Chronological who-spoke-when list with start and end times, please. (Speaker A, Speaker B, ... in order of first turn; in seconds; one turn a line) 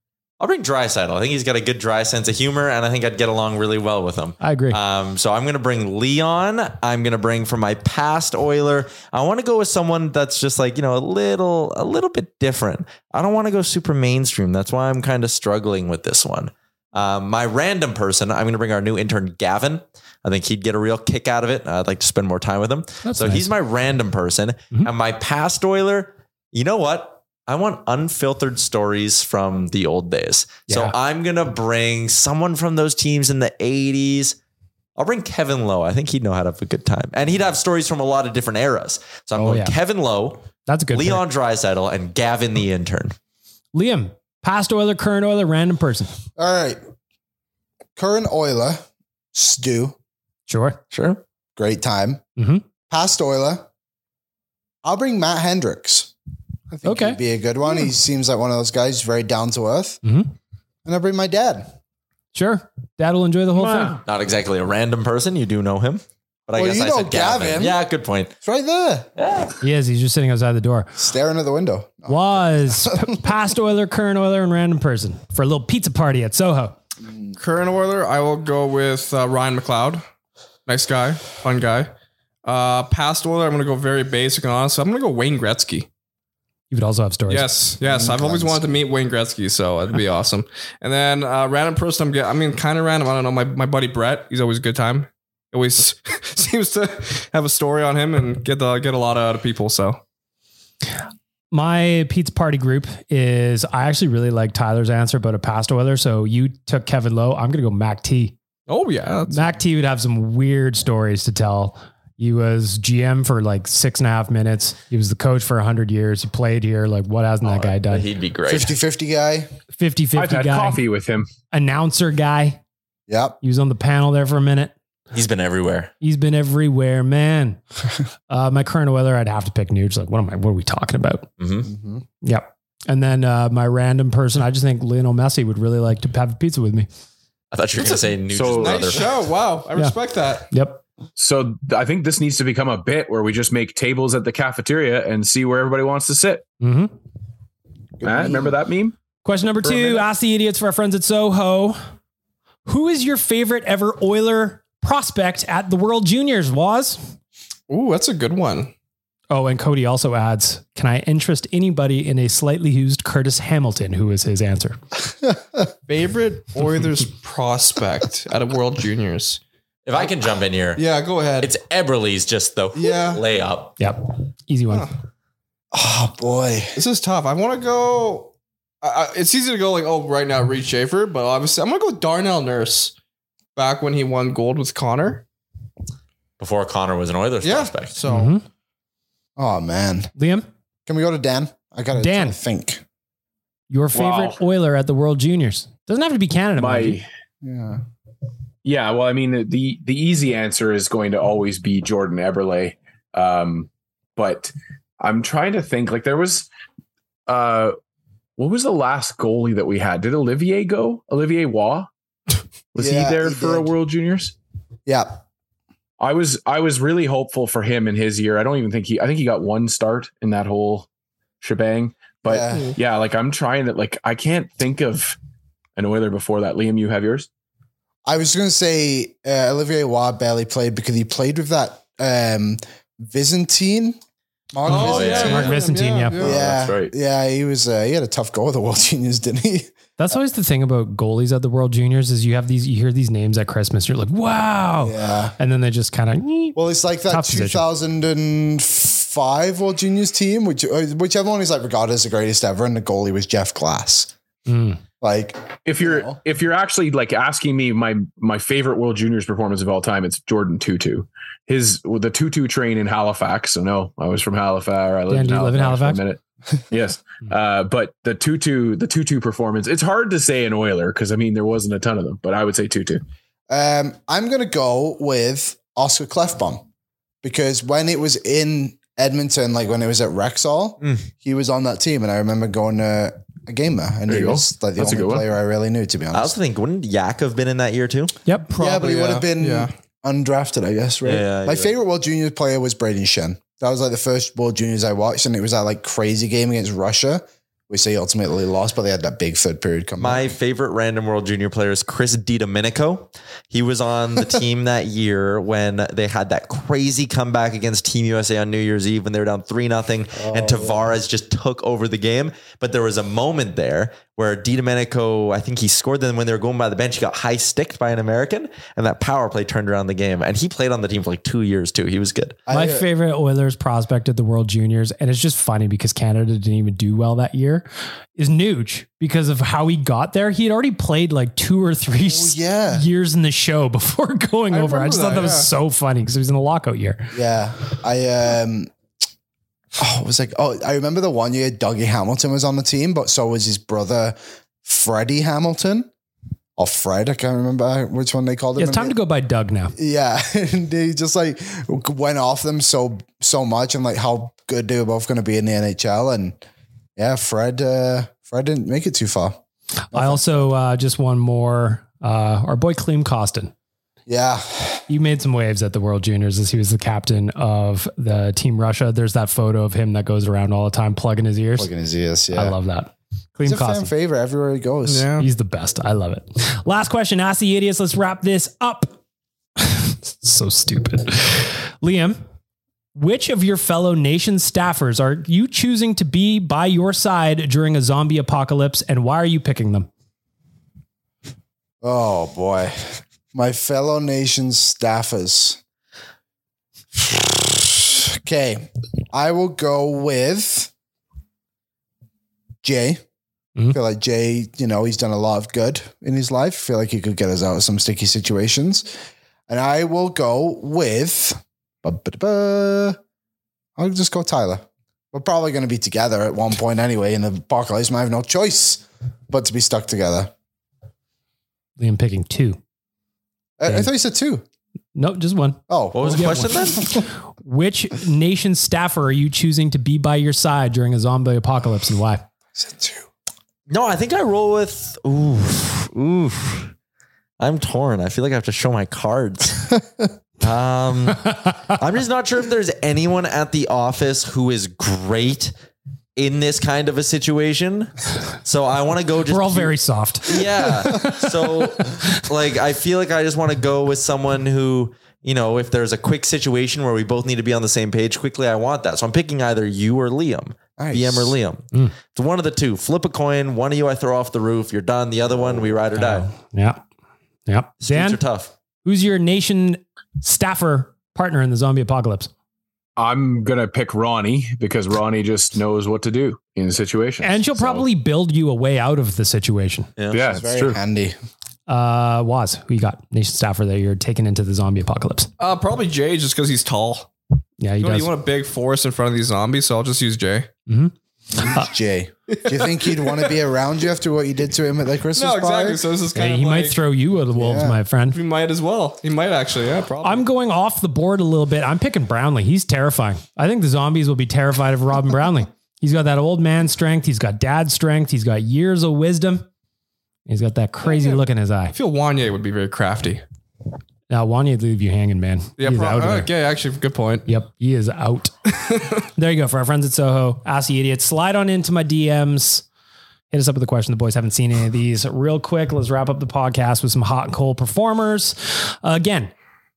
Speaker A: 0.4-34.4
Speaker B: 4.4-4.8
Speaker B: 23.0-23.5
Speaker B: 30.7-30.9
Speaker A: 35.0-43.1
Speaker B: 39.4-39.7
Speaker B: 40.6-41.2
Speaker B: 43.7-46.1
Speaker C: 46.4-46.8
Speaker C: 48.0-50.0
Speaker B: 50.5-50.8
Speaker A: 50.9-51.2
Speaker C: 51.6-52.2
Speaker B: 52.4-52.6
Speaker C: 52.9-53.6
Speaker C: 54.8-56.1
Speaker C: 56.7-60.0
Speaker B: 56.8-57.2
Speaker B: 60.0-60.3
Speaker C: 60.8-61.7
Speaker B: 62.3-64.0
Speaker A: 63.7-68.3
Speaker C: 66.5-67.8
Speaker C: 68.4-69.1
Speaker A: 69.2-69.5
Speaker B: 69.6-70.9
Speaker C: 71.0-73.4
Speaker B: 72.1-76.7
Speaker D: 77.4-80.0
Speaker D: 80.7-81.9
Speaker D: 82.4-85.9
Speaker B: 86.7-87.5
Speaker D: 87.3-100.0
Speaker C: 87.8-88.7
Speaker B: 101.5-108.3
Speaker D: 108.7-109.6
Speaker B: 109.3-118.0
Speaker A: 117.4-118.8
Speaker C: 118.5-119.5
Speaker B: 119.8-120.8
Speaker E: 120.1-121.3
Speaker B: 121.5-122.6
Speaker C: 123.1-123.4
Speaker B: 123.4-124.7
Speaker A: 125.1-125.9
Speaker B: 126.0-127.6
Speaker B: 128.3-131.3
Speaker A: 131.4-131.7
Speaker C: 131.7-132.0
Speaker B: 132.2-136.9
Speaker A: 137.5-139.1
Speaker E: 138.3-139.1
Speaker D: 138.5-140.5
Speaker B: 140.5-140.8
Speaker E: 141.2-146.4
Speaker B: 146.6-146.9
Speaker C: 148.0-148.5
Speaker E: 148.0-148.9
Speaker B: 149.2-151.8
Speaker E: 149.6-150.1
Speaker B: 152.7-157.1
Speaker D: 157.7-158.7
Speaker B: 159.3-164.8
Speaker D: 165.9-169.4
Speaker A: 169.8-170.8
Speaker D: 170.7-171.5
Speaker A: 171.4-173.7
Speaker C: 172.8-173.2
Speaker B: 173.8-174.9
Speaker C: 175.7-176.8
Speaker D: 176.8-182.9
Speaker D: 183.5-185.2
Speaker A: 186.4-188.0
Speaker D: 187.4-188.3
Speaker B: 188.1-188.4
Speaker C: 189.4-190.1
Speaker B: 190.2-190.4
Speaker C: 190.8-192.8
Speaker B: 192.0-192.4
Speaker B: 193.7-197.0
Speaker E: 193.9-194.4
Speaker E: 196.6-197.1
Speaker C: 197.4-197.8
Speaker E: 198.6-206.5
Speaker E: 207.3-207.7
Speaker E: 208.4-211.9
Speaker E: 212.7-214.3
Speaker C: 212.8-213.7
Speaker C: 214.8-215.2
Speaker E: 216.0-220.9
Speaker E: 221.4-225.2
Speaker C: 222.2-222.7
Speaker E: 225.8-227.3
Speaker C: 228.1-234.0
Speaker C: 234.5-235.5
Speaker D: 234.7-236.4
Speaker B: 234.7-236.2
Speaker A: 234.7-235.6
Speaker E: 236.2-236.9
Speaker C: 236.2-239.7
Speaker B: 240.0-247.6
Speaker C: 244.8-245.3
Speaker C: 246.5-254.1
Speaker B: 254.4-254.8
Speaker C: 255.0-256.2
Speaker E: 255.6-266.2
Speaker B: 265.1-266.0
Speaker E: 266.7-273.0
Speaker C: 273.5-276.6
Speaker C: 277.2-286.3
Speaker A: 280.8-281.1
Speaker E: 284.1-285.2
Speaker A: 286.1-288.1
Speaker D: 288.5-289.7
Speaker C: 288.5-300.4
Speaker A: 291.0-291.7
Speaker A: 300.0-322.4
Speaker C: 310.1-310.9
Speaker C: 322.5-322.9
Speaker B: 322.5-337.1
Speaker C: 332.0-332.8
Speaker D: 334.5-335.5
Speaker C: 337.1-338.7
Speaker C: 339.8-345.9
Speaker C: 346.6-349.0
Speaker B: 348.6-349.7
Speaker C: 349.8-356.4
Speaker C: 356.9-359.4
Speaker B: 359.9-363.5
Speaker C: 359.9-360.5
Speaker C: 364.1-364.8
Speaker B: 364.9-371.7
Speaker C: 371.6-372.6
Speaker B: 372.3-373.9
Speaker C: 373.4-375.1
Speaker D: 374.9-375.3
Speaker B: 375.2-378.9
Speaker B: 379.6-382.2
Speaker B: 382.9-389.9
Speaker C: 391.8-395.6
Speaker C: 397.0-400.7
Speaker C: 402.6-403.0
Speaker C: 403.7-408.9
Speaker C: 409.5-413.0
Speaker C: 413.8-420.3
Speaker B: 421.8-422.6
Speaker C: 423.6-424.4
Speaker B: 424.9-426.8
Speaker C: 425.7-427.0
Speaker A: 425.9-426.9
Speaker B: 427.4-432.2
Speaker C: 432.5-433.1
Speaker A: 433.7-436.7
Speaker A: 437.4-439.7
Speaker A: 440.4-445.5
Speaker A: 446.1-466.2
Speaker B: 449.3-452.1
Speaker C: 460.8-461.4
Speaker B: 465.9-466.8
Speaker B: 467.5-468.2
Speaker A: 467.8-468.5
Speaker B: 468.8-472.3
Speaker E: 473.0-477.9
Speaker B: 477.2-479.9
Speaker A: 480.0-480.2
Speaker E: 480.1-480.8
Speaker C: 480.3-481.1
Speaker B: 481.7-485.3
Speaker D: 485.4-487.1
Speaker B: 487.6-488.1
Speaker D: 487.8-490.5
Speaker B: 490.7-491.7
Speaker C: 491.4-495.8
Speaker D: 492.3-493.3
Speaker D: 495.1-496.8
Speaker B: 496.1-498.2
Speaker C: 497.3-497.8
Speaker D: 498.1-500.2
Speaker B: 500.0-509.4
Speaker B: 510.3-511.7
Speaker D: 510.8-513.2
Speaker B: 514.1-516.3
Speaker D: 515.6-517.2
Speaker B: 517.3-518.3
Speaker D: 518.6-519.0
Speaker B: 519.1-522.6
Speaker B: 523.3-529.3